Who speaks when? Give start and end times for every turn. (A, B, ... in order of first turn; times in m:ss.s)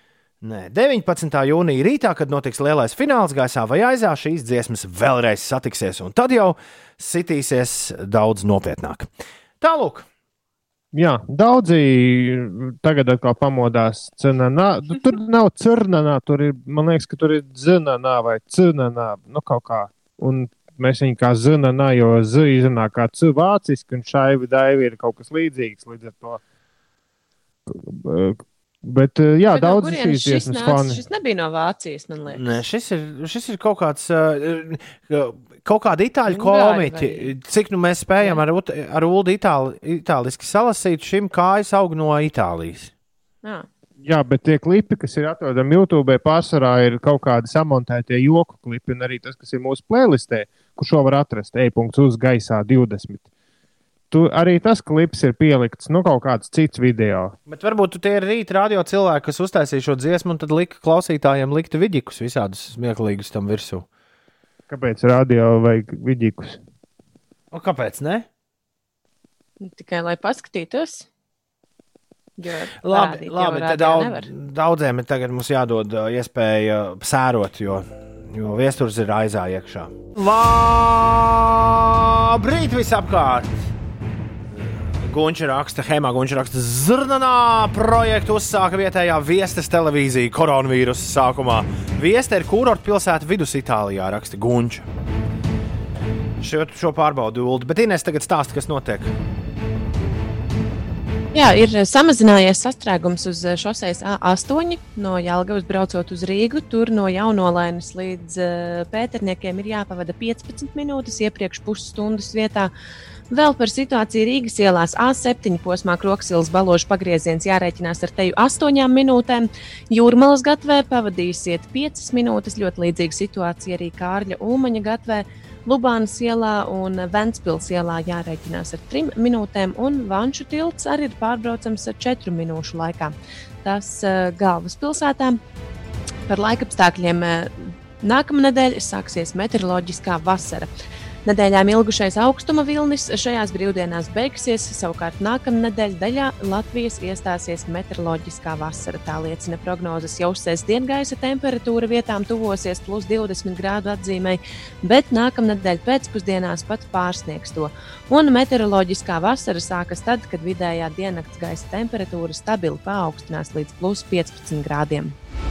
0:00.4-0:10.0 A
0:10.9-0:26.4 B
0:27.7-0:31.0 B
0:29.5-0:32.6 C
0:32.3-0:42.9 A
0:36.3-0:37.3 C
0:44.0-0:53.2 B
0:54.1-0:57.4 B
0:57.5-1:03.9 A
1:04.7-1:06.6 B
1:07.5-1:08.3 A
1:09.6-1:11.0 C
1:12.4-1:14.3 C
1:12.8-1:23.5 A
1:24.6-1:34.8 A
1:36.4-1:39.1 A
1:41.3-1:52.7 C
1:53.3-2:15.4 C
2:16.3-2:20.7 C
2:21.2-2:45.1 C